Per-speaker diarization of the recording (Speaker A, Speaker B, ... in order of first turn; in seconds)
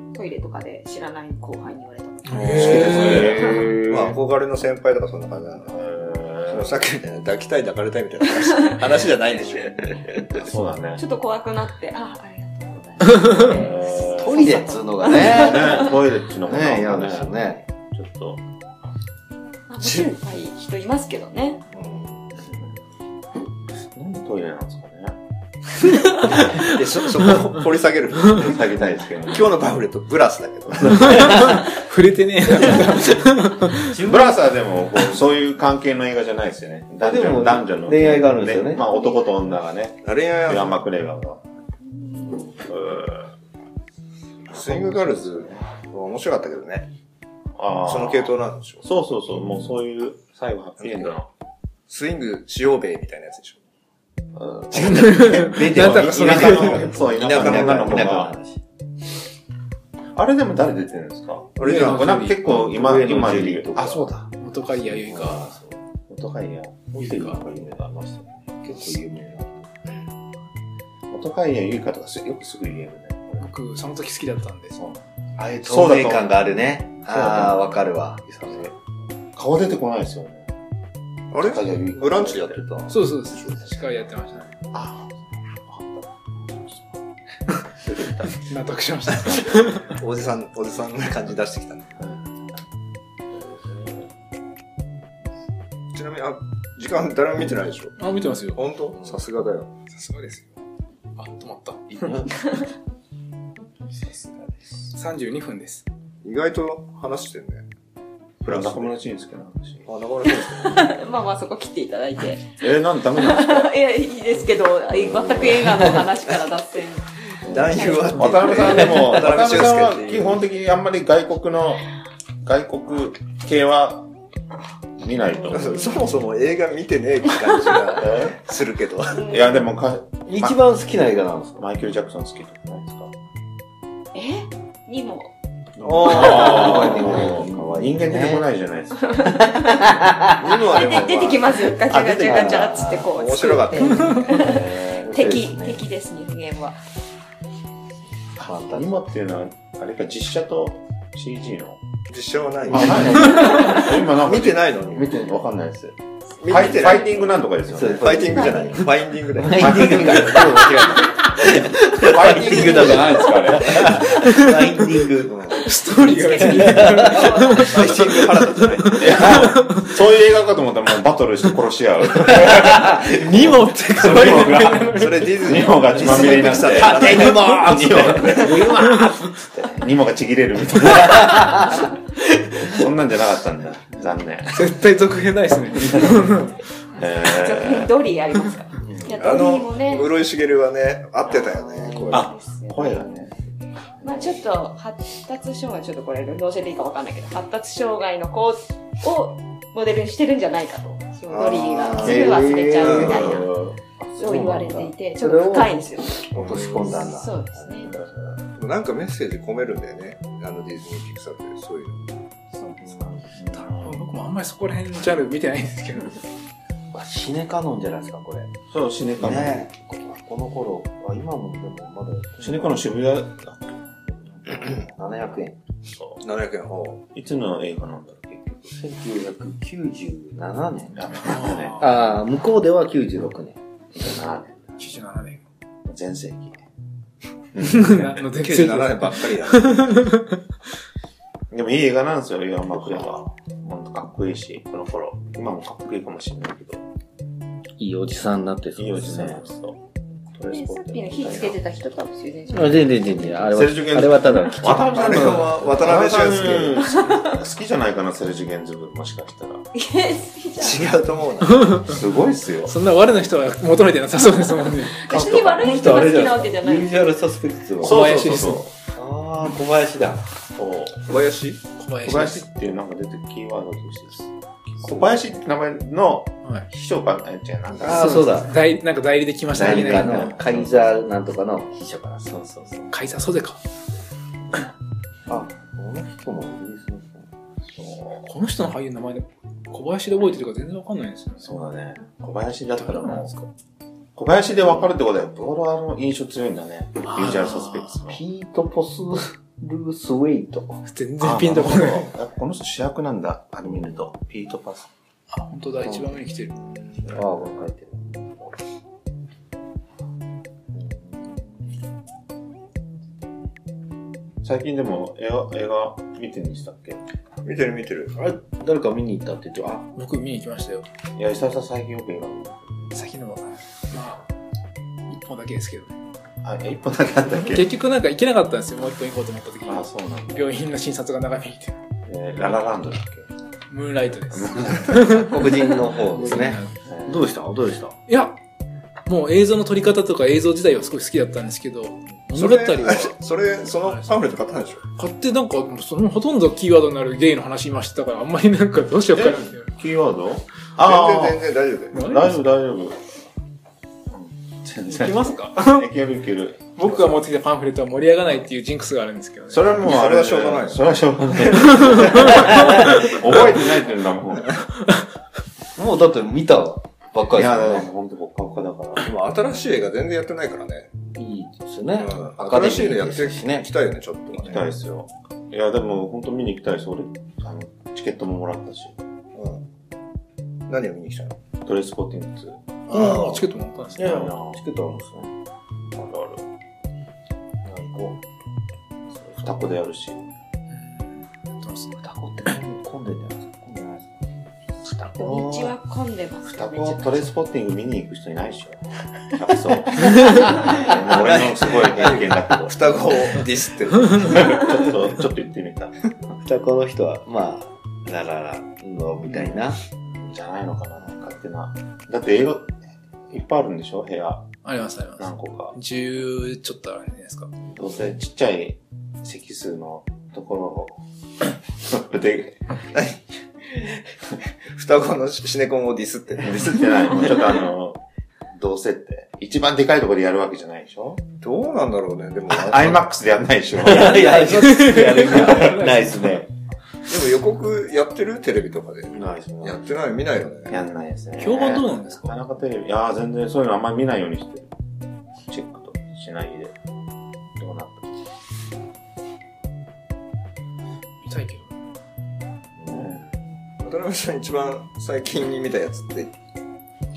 Speaker A: 0.1-3.2, 11.0-15.9, 19.7-21.6, 38.9-39.3, 42.0-42.5, 110.5-112.6, 113.2-117.1, 117.7-118.7, 125.3-125.9, 129.1-129.7, 134.1-135.3, 139.1-139.5, 140.4-146.8, 166.1-167.7, 187.2-190.2, 191.3-193.2, 194.0-203.5, 204.2-207.9, 212.5-213.3, 250.4-253.0, 256.8-257.4, 259.8-261.0, 265.0-267.0, 395.1-397.1
Speaker B: 2.3-3.3, 31.0-33.9, 54.8-56.8, 61.6-62.4, 64.4-65.5, 67.0-67.4, 73.4-74.8, 82.9-84.4, 88.5-89.9, 98.0-98.6, 99.9-100.5, 101.2-102.3, 104.9-105.9, 164.1-165.0, 165.6-169.9, 173.2-175.4, 178.3-179.2, 184.5-186.6, 213.7-216.2, 231.2-231.9, 234.8-235.4, 237.6-240.4, 261.5-261.9, 262.7-265.0, 267.8-268.6, 271.8-272.4, 277.9-280.4, 282.9-283.6, 288.2-291.5, 292.8-293.5, 297.1-298.1, 300.9-302.1, 305.3-306.6, 319.9-320.9, 322.9-324.3, 325.1-325.9, 327.5-331.8, 333.7-336.8, 338.1-338.4, 339.1-343.2, 343.8-344.1, 345.0-349.7, 351.9-352.4, 354.9-355.9, 356.8-359.8, 361.6-362.0, 382.9-384.2, 390.7-392.0, 414.6-417.5, 434.0-436.4, 441.4-442.3, 451.2-451.7
Speaker C: 2.5-5.9, 6.5-10.0, 21.7-22.2, 26.3-28.7, 29.3-31.3, 40.0-40.8, 44.5-46.9, 47.9-48.8, 50.8-51.1, 51.9-53.6, 55.8-58.1, 61.6-62.0, 81.3-83.6, 89.8-92.0, 95.9-98.0, 98.5-99.7, 106.2-107.7, 108.4-108.9, 109.9-110.9, 117.4-120.4, 125.5-129.3, 135.8-137.5, 143.1-144.2, 152.1-155.1, 156.4-157.3, 157.9-160.2, 165.3-165.7, 167.1-169.4, 174.8-177.6, 189.1-192.3, 201.3-203.2, 208.6-212.0, 226.2-227.0, 238.3-240.2, 254.8-256.9, 260.6-261.9, 271.1-271.6, 317.4-318.2, 342.4-344.8, 350.8-352.0, 359.8-360.9, 369.0-370.9, 372.0-374.7, 379.4-379.6, 380.7-381.4, 401.1-404.6, 422.9-423.2, 424.7-427.0, 431.4-433.0, 437.1-440.8, 453.8-456.3
Speaker D: 2.5-4.2, 5.7-6.7, 10.3-11.0, 13.2-18.4, 23.8-25.2, 28.3-29.6, 30.8-31.1, 34.0-41.4, 42.7-43.3, 44.5-45.6, 47.6-51.3, 54.4-58.4, 60.1-64.3, 66.1-67.9, 71.1-73.5, 74.7-75.0, 75.6-76.3, 77.1-77.7, 78.5-78.7, 79.3-80.5, 81.4-82.6, 84.7-87.0, 87.6-88.4, 92.0-92.3, 93.4-93.9, 108.4-109.9, 112.6-113.7, 115.0-115.9, 117.5-121.8, 122.4-124.1, 125.0-125.9, 128.0-128.4, 129.3-130.6, 131.6-133.1, 135.8-139.5, 140.7-141.2, 148.4-151.8, 152.7-158.5, 159.4-164.3, 169.0-181.8, 182.6-184.6, 185.8-186.3, 187.0-187.9, 192.1-193.3, 194.0-194.4, 202.8-203.8, 206.4-206.7, 207.9-208.3, 213.3-214.1, 218.7-219.7, 222.4-224.7, 225.9-226.2, 227.1-228.8, 230.9-232.2, 233.9-234.9, 235.8-236.6, 237.5-238.2, 241.5-246.8, 248.8-249.8, 250.3-251.6, 253.4-259.7, 261.8-262.8, 265.1-266.1, 267.8-268.6, 270.6-271.1, 272.0-278.5, 279.6-281.0, 287.6-288.3, 291.4-293.3, 294.2-298.2, 301.2-304.9, 314.4-317.0, 321.2-322.9, 326.4-327.7, 329.6-330.5, 332.1-333.3, 334.3-335.2, 336.9-337.2, 349.1-353.1, 354.1-356.9, 359.5-364.7, 367.3-369.1, 374.4-379.0, 381.6-382.6, 384.0-384.6, 385.9-386.4, 389.3-390.3, 396.4-403.1, 404.1-406.1, 410.1-412.8, 413.3-414.5, 415.2-415.8, 417.8-422.6, 426.4-428.0, 428.5-431.2, 432.5-434.7, 440.7-444.7, 445.4-446.8, 447.6-448.1, 452.9-453.3
Speaker E: 2.7-3.7, 13.6-17.6, 33.8-34.5, 37.0-38.9, 54.8-58.6, 61.9-65.8, 66.9-69.9, 75.4-78.7, 102.0-102.5, 103.9-104.6, 130.3-131.6, 136.0-138.5, 139.3-143.1, 144.1-145.8, 148.4-148.9, 152.9-153.2, 157.7-167.2, 172.4-173.6, 176.0-179.4, 180.9-181.7, 188.8-189.4, 202.0-203.5, 204.2-208.1, 216.9-218.5, 219.2-223.1, 224.2-225.6, 228.7-231.0, 231.8-233.6, 247.8-249.5, 252.5-255.4, 265.1-270.3, 274.9-275.2, 277.8-278.5, 279.5-282.9, 285.3-287.3, 298.1-300.8, 303.7-304.0, 305.8-306.2, 307.0-308.6, 310.7-311.7, 318.2-319.9, 335.1-338.0, 361.9-363.1, 365.8-367.9, 371.1-373.7, 383.0-383.4, 384.0-385.3, 387.6-388.2, 392.0-394.3, 395.1-395.7, 406.4-409.8, 433.8-436.5, 439.1-439.9, 452.8-453.3